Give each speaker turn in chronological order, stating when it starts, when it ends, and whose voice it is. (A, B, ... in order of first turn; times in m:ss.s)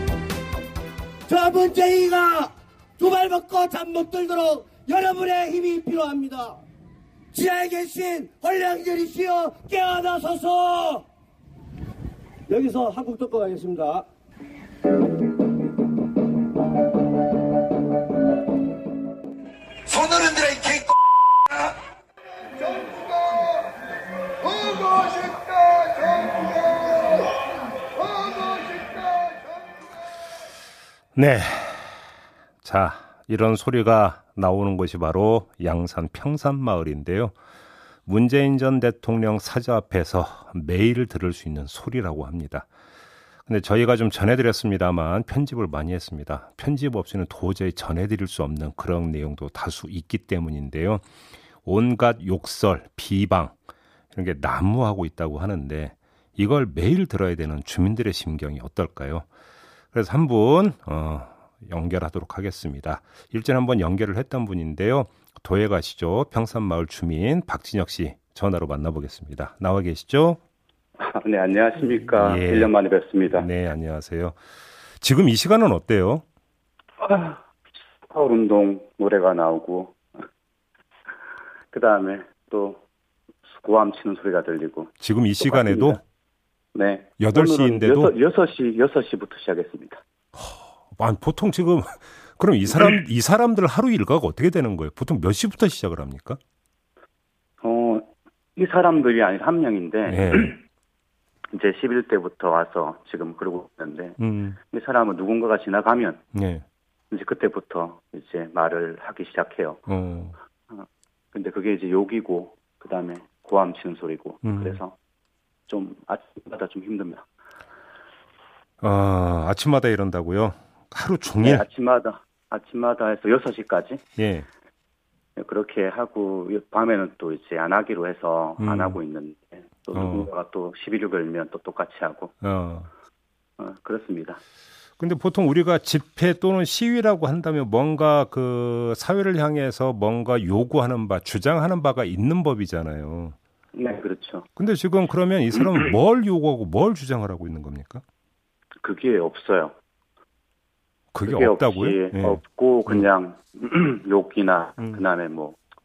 0:01.3-0:06.6 A
0:07.3-0:11.1 A
0:12.5-0:14.1 A
0:20.0-0:20.9 A
0:31.2-0:37.4 B
0:38.1-0:42.7 B
0:43.5-0:51.0 B
0:51.6-0:53.6 B
0:54.1-0:59.3 B
0:59.9-1:10.4 B
1:11.0-1:13.5 C
1:12.1-1:12.7 B
1:13.3-1:14.4 B
1:15.0-1:16.2 B
1:17.0-1:17.4 C
1:18.1-1:20.1 C
1:21.7-1:22.8 C
1:23.5-1:26.0 C
1:25.0-1:26.0 B
1:26.7-1:30.0 C
1:27.2-1:28.1 B
1:30.4-1:36.4 B
1:37.6-1:40.6 C
1:40.1-1:40.6 B
1:41.5-1:44.2 C
1:44.2-1:44.6 B
1:44.7-1:46.2 C
1:46.3-1:46.6 B
1:47.1-1:49.8 C
1:49.9-1:50.4 B
1:50.7-1:55.0 C
1:54.4-1:54.8 B
1:55.7-1:57.2 C
1:58.8-2:01.7 B
2:01.4-2:04.0 C
2:04.2-2:04.5 B
2:05.4-2:12.3 C
2:08.6-2:09.0 B
2:09.9-2:10.3 B
2:12.4-2:12.9 B
2:13.6-2:14.4 C
2:15.0-2:23.4 B
2:23.8-2:24.5 C
2:24.6-2:28.0 B
2:28.8-2:29.7 C
2:31.1-2:33.1 B
2:31.3-2:35.6 C
2:34.8-2:35.0 B